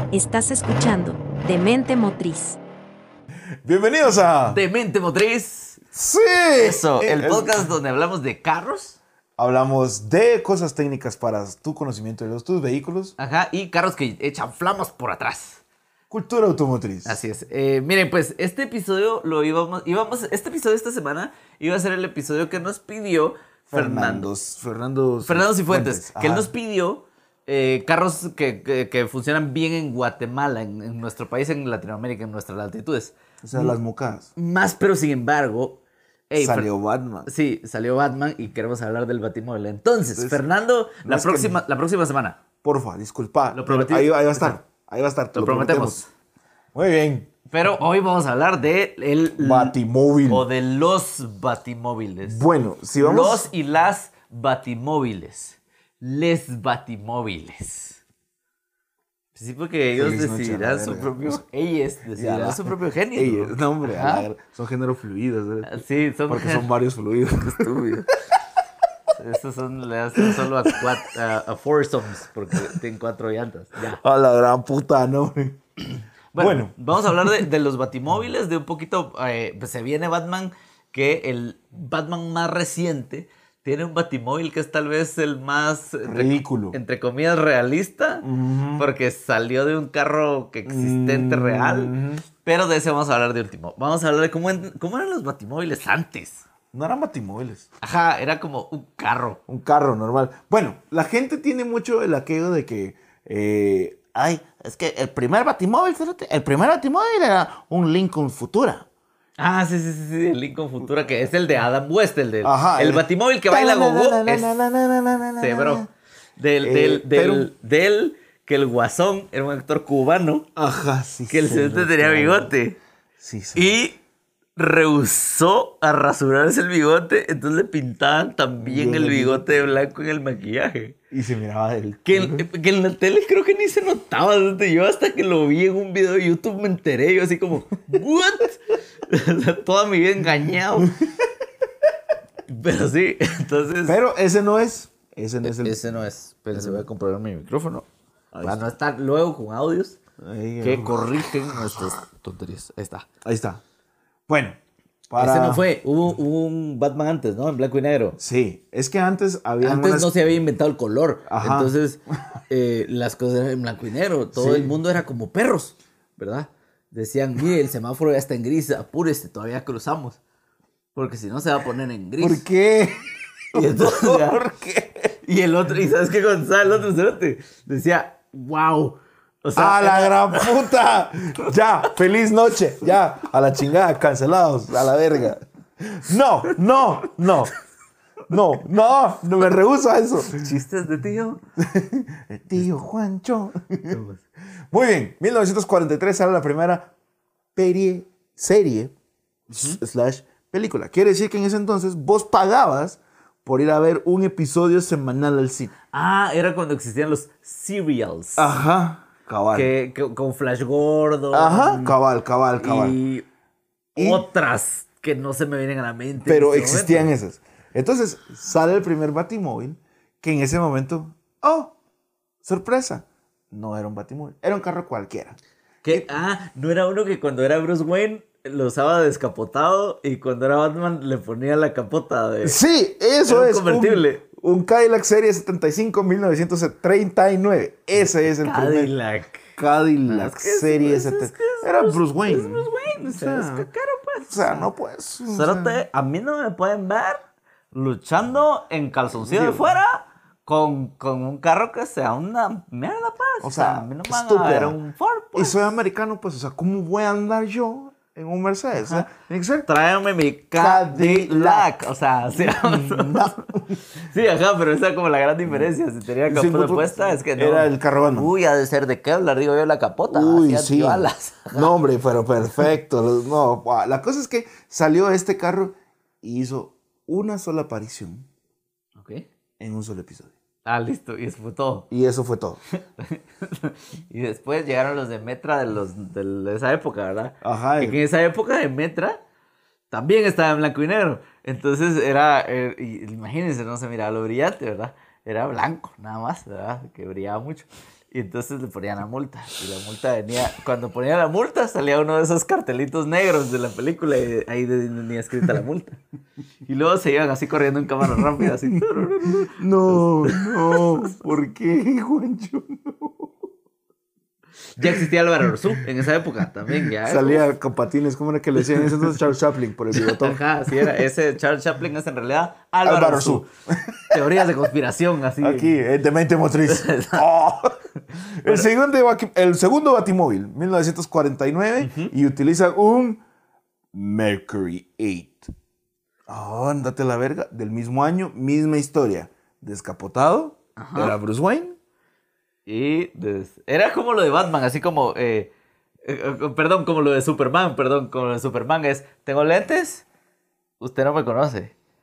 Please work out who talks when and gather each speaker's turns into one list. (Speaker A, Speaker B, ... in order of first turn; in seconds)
Speaker A: 0.1-2.6
Speaker B: 3.6-4.6, 5.9-7.7, 9.4-13.1, 16.1-17.2, 23.7-26.5, 33.4-34.3, 36.4-37.3, 40.1-40.4, 41.0-41.6, 42.6-46.0, 46.7-47.3, 49.4-50.5, 52.2-53.5, 60.0-61.4, 62.1-67.7, 70.2-70.9, 73.8-77.4, 86.0-86.8, 88.2-88.9, 90.7-92.2, 96.7-97.7, 99.5-108.9, 112.4-115.9, 116.6-117.5, 120.5-122.5, 123.2-123.8, 128.6-129.7, 131.1-132.4, 143.8-145.8, 146.5-146.8, 148.3-148.7, 150.2-151.7, 153.2-153.6, 154.3-154.6, 155.1-155.6, 158.2-160.4, 161.2-162.4, 164.3-164.7, 172.2-175.2, 179.5-187.5, 188.3-190.5, 191.6-194.0, 194.7-196.9, 197.5-198.9, 199.5-205.7, 208.4-209.7, 211.3-213.0, 213.9-214.2, 216.2-221.7, 222.4-226.1, 232.4-238.9, 239.6-243.7, 244.3-245.8, 249.2-249.7, 253.4-254.8, 255.3-259.7, 260.5-261.7, 262.4-263.8, 266.3-268.3, 270.1-278.3, 279.6-280.3, 281.9-282.6, 287.4-288.0, 308.1-308.5, 309.3-313.5, 314.8-315.8, 316.7-321.0, 322.8-324.4, 325.4-333.2, 333.9-335.5, 336.3-341.8
Speaker C: 4.5-5.8, 6.6-9.0, 13.2-15.6, 17.0-24.3, 25.2-33.8, 34.3-36.7, 37.2-42.4, 43.5-44.6, 45.3-46.1, 47.5-49.8, 50.3-52.5, 53.0-58.0, 59.3-64.3, 65.7-66.7, 67.4-68.1, 69.1-74.0, 76.3-96.5, 97.8-99.4, 109.4-114.5, 115.4-115.8, 116.4-120.5, 121.3-122.8, 123.5-124.0, 124.5-130.9, 132.1-141.0, 142.5-144.0, 145.4-147.8, 148.4-150.0, 150.6-153.1, 155.2-158.2, 159.6-170.2, 170.9-172.4, 173.5-174.4, 175.2-180.6, 190.3-191.4, 193.9-194.2, 199.5-199.8, 205.9-208.5, 209.5-212.0, 212.6-213.2, 213.9-217.1, 225.8-232.6, 233.2-234.2, 238.4-239.4, 240.1-244.7, 245.3-255.6, 258.8-259.1, 259.6-271.7, 278.9-279.3, 280.6-281.9, 283.0-289.2, 289.9-306.0, 306.6-310.9, 314.8-317.5, 319.9-323.5, 324.1-325.8, 326.7-327.2, 331.8-332.1, 340.8-341.1, 342.6-345.5, 346.0-350.1, 350.8-351.7